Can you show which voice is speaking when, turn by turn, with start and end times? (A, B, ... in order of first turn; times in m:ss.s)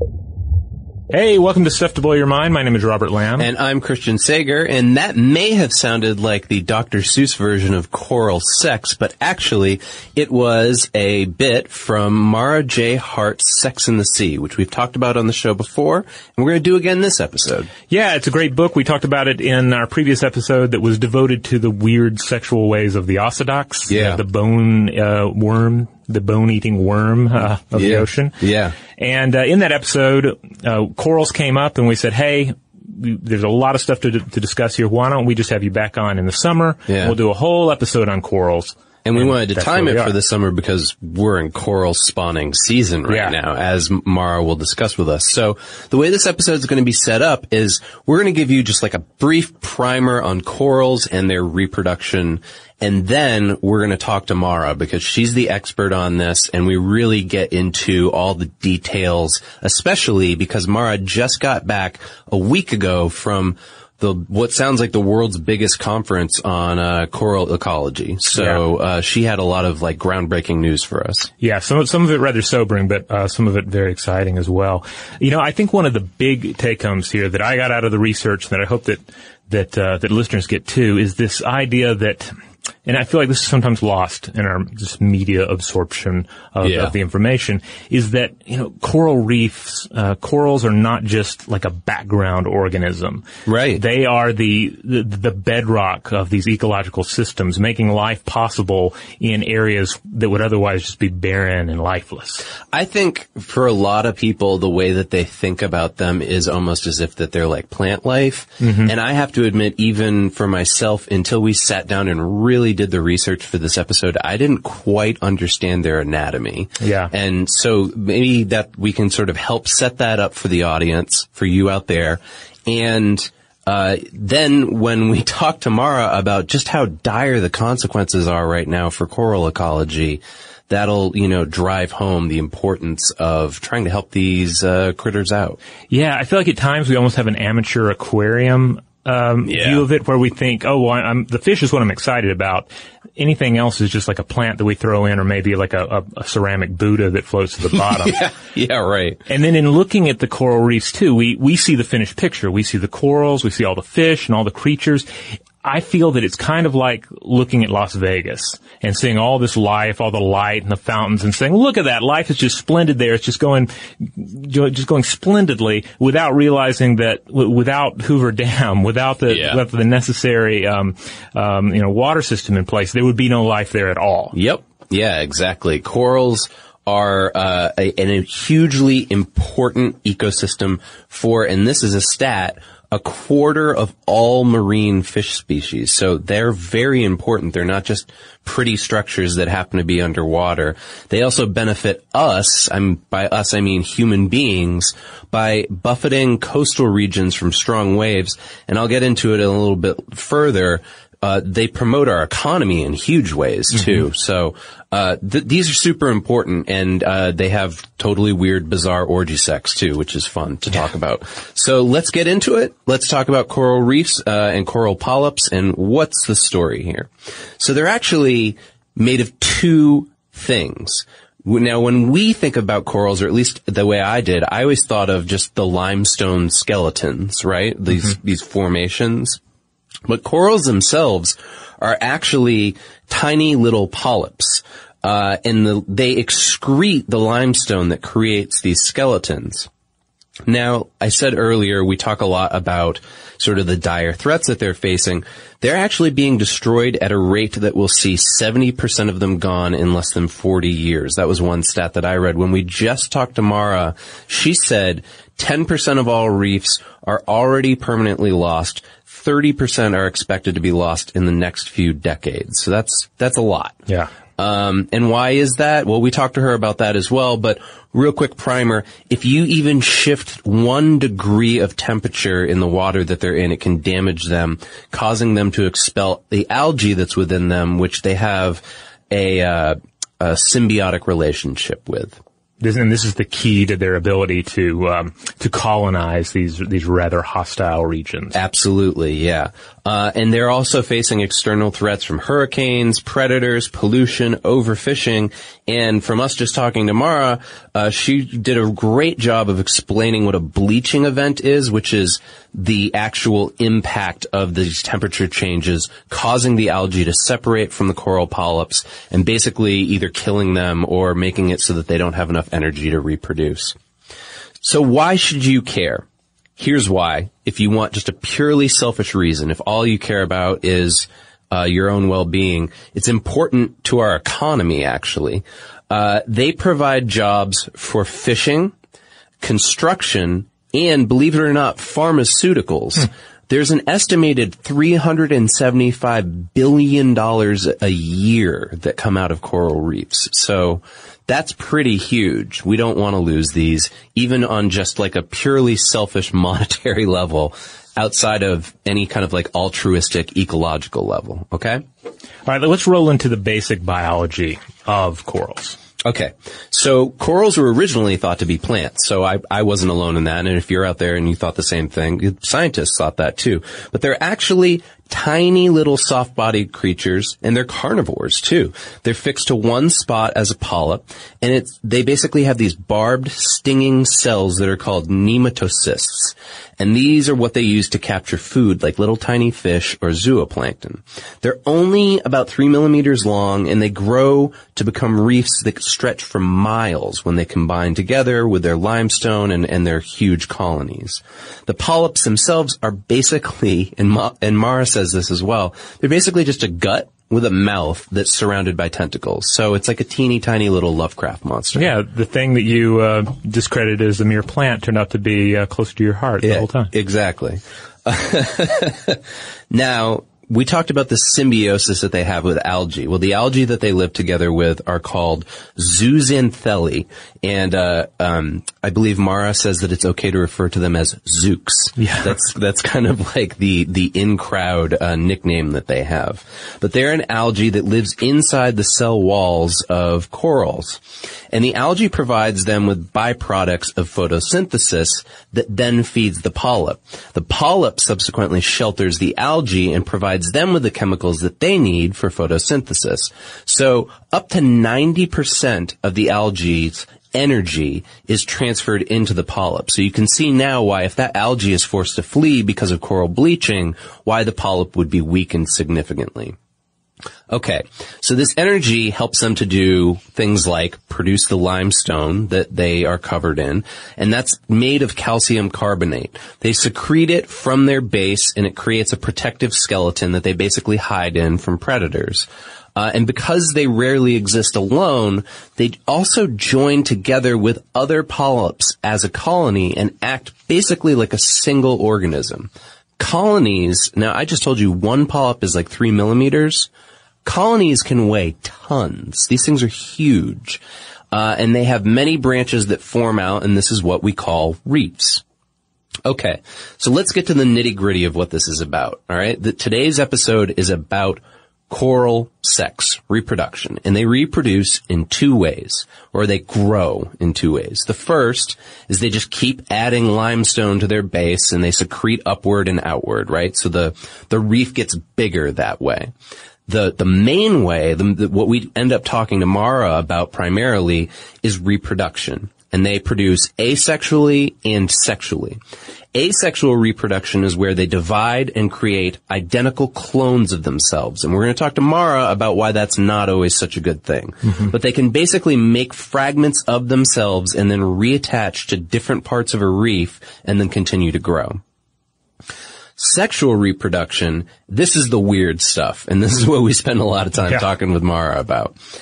0:01.1-0:03.5 A
0:03.4-0:17.7 B
0:17.9-0:28.4 A
0:23.9-0:24.2 B
0:27.7-0:28.8 B
0:28.9-0:40.1 A
0:36.9-0:37.2 B
0:39.0-1:11.3 B
0:43.1-0:43.4 A
1:08.4-1:08.6 A
1:11.4-1:22.3 A
1:22.9-1:33.2 A
1:26.6-1:26.9 B
1:33.5-1:33.8 B
1:33.8-1:42.4 A
1:42.7-2:15.6 B
1:48.6-1:48.9 A
1:56.8-1:57.1 A
2:15.9-2:28.2 A
2:19.4-2:19.9 B
2:27.7-2:29.2 B
2:29.3-2:35.1 A
2:35.6-2:54.3 A
2:49.3-2:49.6 B
2:54.3-3:49.4 B
3:23.7-3:24.0 A
3:50.1-3:59.7 B
4:00.5-4:23.8 B
4:24.4-4:42.2 B
4:42.6-4:48.4 A
4:48.3-5:13.8 B
5:14.6-5:16.0 B
5:16.6-5:28.8 B
5:29.4-5:51.8 B
5:52.5-5:55.8 A
5:56.0-6:41.9 B
6:41.8-6:46.9 A
6:46.4-7:36.6 B
7:02.0-7:02.3 A
7:37.5-8:06.9 B
8:07.4-8:15.4 B
8:16.2-8:36.3 B
8:36.9-8:45.8 B
8:46.3-9:01.8 B
9:03.2-9:09.0 B